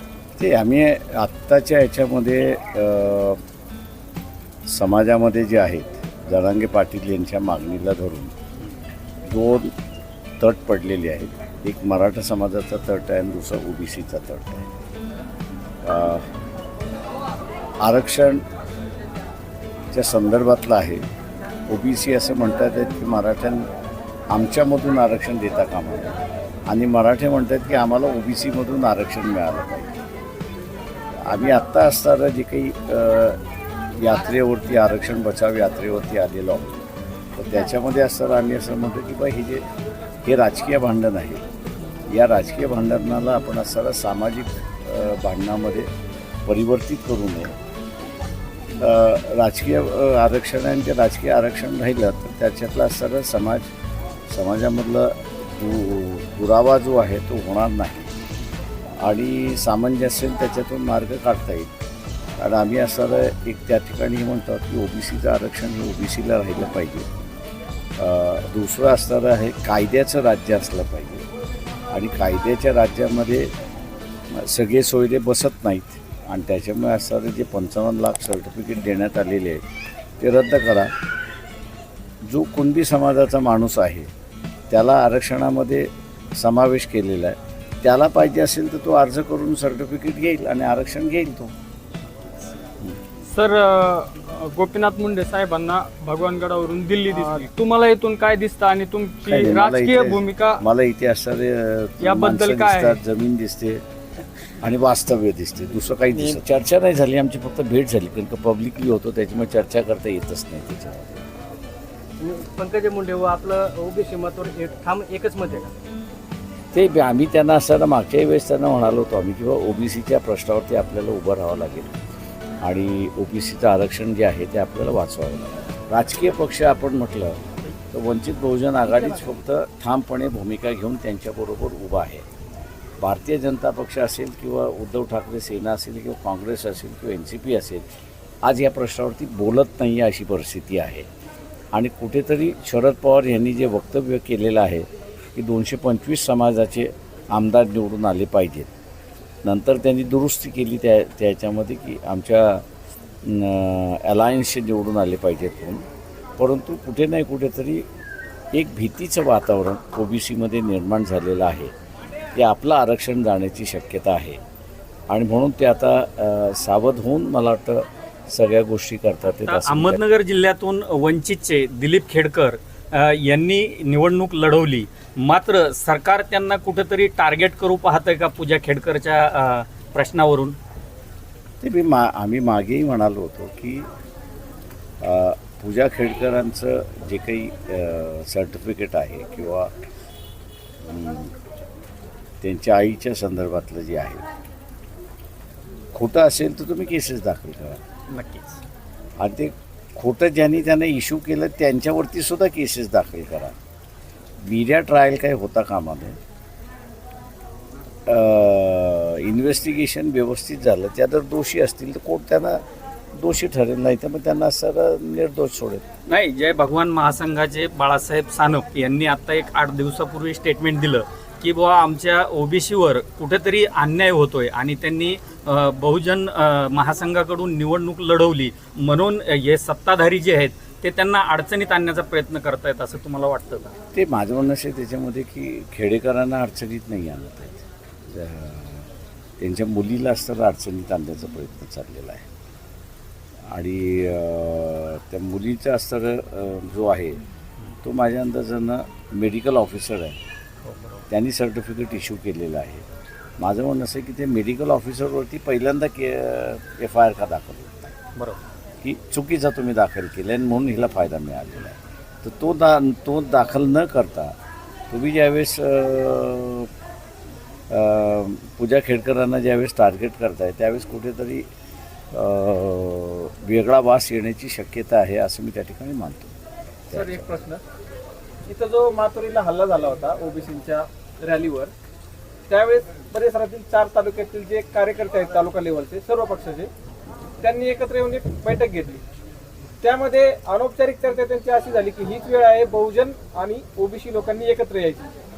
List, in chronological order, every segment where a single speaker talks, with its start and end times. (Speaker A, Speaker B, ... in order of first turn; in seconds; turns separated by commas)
Speaker A: 0.4-3.4, Speaker A: 4.7-8.3, Speaker A: 9.3-9.7, Speaker A: 10.4-14.7, Speaker A: 15.8-16.3, Speaker A: 17.8-18.4, Speaker A: 19.9-21.0, Speaker A: 21.7-23.7, Speaker A: 24.3-29.9, Speaker A: 31.2-33.4, Speaker A: 34.0-36.8, Speaker A: 37.4-39.6, Speaker A: 40.2-41.4, Speaker A: 42.1-45.9, Speaker A: 46.5-47.5, Speaker A: 48.8-53.7, Speaker A: 54.3-58.1, Speaker A: 59.0-61.7, Speaker A: 62.4-67.1, Speaker A: 68.0-71.3, Speaker A: 71.9-73.5, Speaker A: 74.3-79.6, Speaker A: 80.2-80.9, Speaker A: 82.2-84.1, Speaker A: 84.7-91.5, Speaker B: 93.3-100.6, Speaker A: 99.3-103.8, Speaker B: 102.0-103.0, Speaker A: 104.6-111.3, Speaker C: 106.1-106.4, Speaker C: 112.2-115.7, Speaker A: 116.7-121.9, Speaker A: 122.6-132.2, Speaker A: 133.0-137.8, Speaker A: 138.4-141.1, Speaker A: 141.7-148.7, Speaker A: 149.4-152.6, Speaker A: 153.2-155.8, Speaker A: 156.4-157.9, Speaker A: 158.5-161.7, Speaker A: 162.3-164.4, Speaker A: 165.1-170.0, Speaker D: 169.5-180.6, Speaker A: 181.6-183.9, Speaker A: 185.0-189.7, Speaker A: 190.8-191.3, Speaker A: 192.4-194.2, Speaker A: 195.9-197.8, Speaker D: 198.1-198.6, Speaker A: 199.2-203.6, Speaker A: 204.4-206.2, Speaker A: 208.1-212.6, Speaker A: 213.1-215.8, Speaker D: 216.1-233.7, Speaker A: 233.9-238.9, Speaker A: 239.4-242.2, Speaker A: 243.5-247.2, Speaker A: 247.8-250.2, Speaker D: 250.6-251.0, Speaker A: 251.1-252.8, Speaker A: 253.4-257.9, Speaker A: 258.8-264.3, Speaker A: 264.9-266.7, Speaker A: 267.7-271.5, Speaker A: 272.1-276.3, Speaker A: 276.9-277.3, Speaker E: 276.9-277.6, Speaker E: 278.4-281.7, Speaker E: 282.5-286.7, Speaker E: 287.4-289.0, Speaker E: 289.8-295.1